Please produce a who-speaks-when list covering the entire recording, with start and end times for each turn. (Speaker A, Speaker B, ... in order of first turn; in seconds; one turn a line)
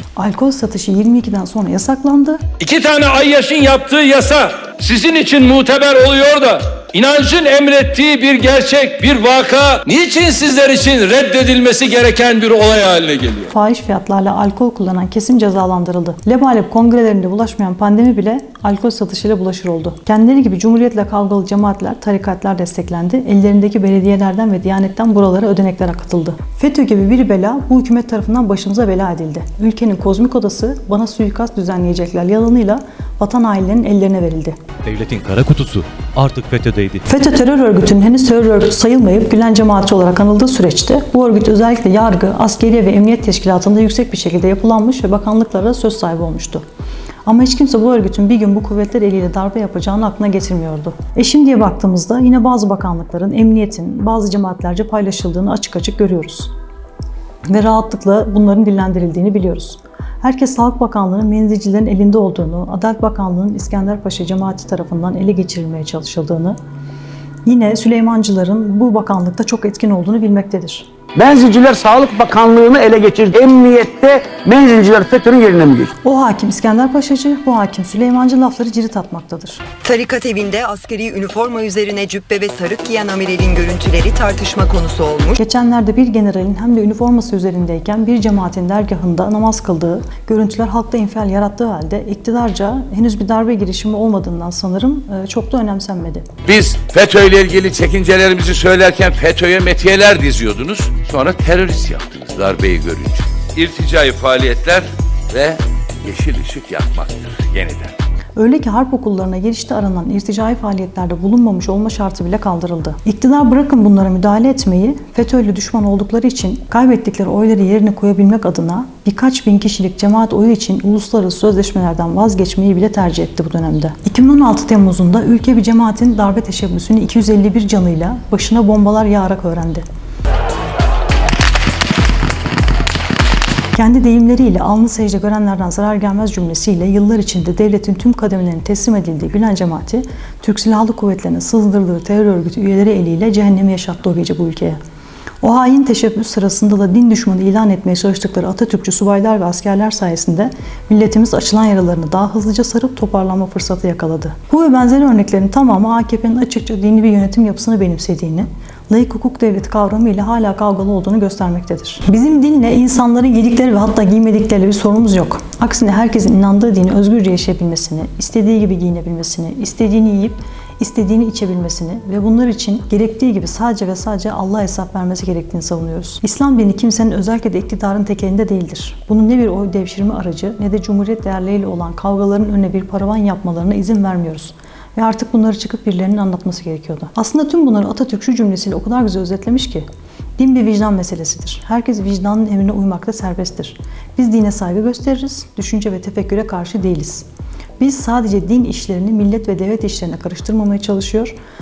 Speaker A: 0.2-2.4
Speaker B: 2.6-13.5
Speaker A: 13.5-34.6
Speaker C: 34.9-37.0
Speaker A: 37.1-46.6
Speaker A: 47.3-56.5
Speaker A: 57.5-66.6
Speaker A: 67.5-70.9
Speaker D: 71.2-75.9
Speaker A: 76.0-79.6
Speaker E: 79.8-85.4
Speaker A: 85.4-96.3
Speaker F: 96.5-107.9
Speaker A: 108.4-129.8
Speaker A: 133.8-144.8
Speaker A: 145.4-189.9
Speaker A: 190.4-197.3
Speaker A: 197.8-201.3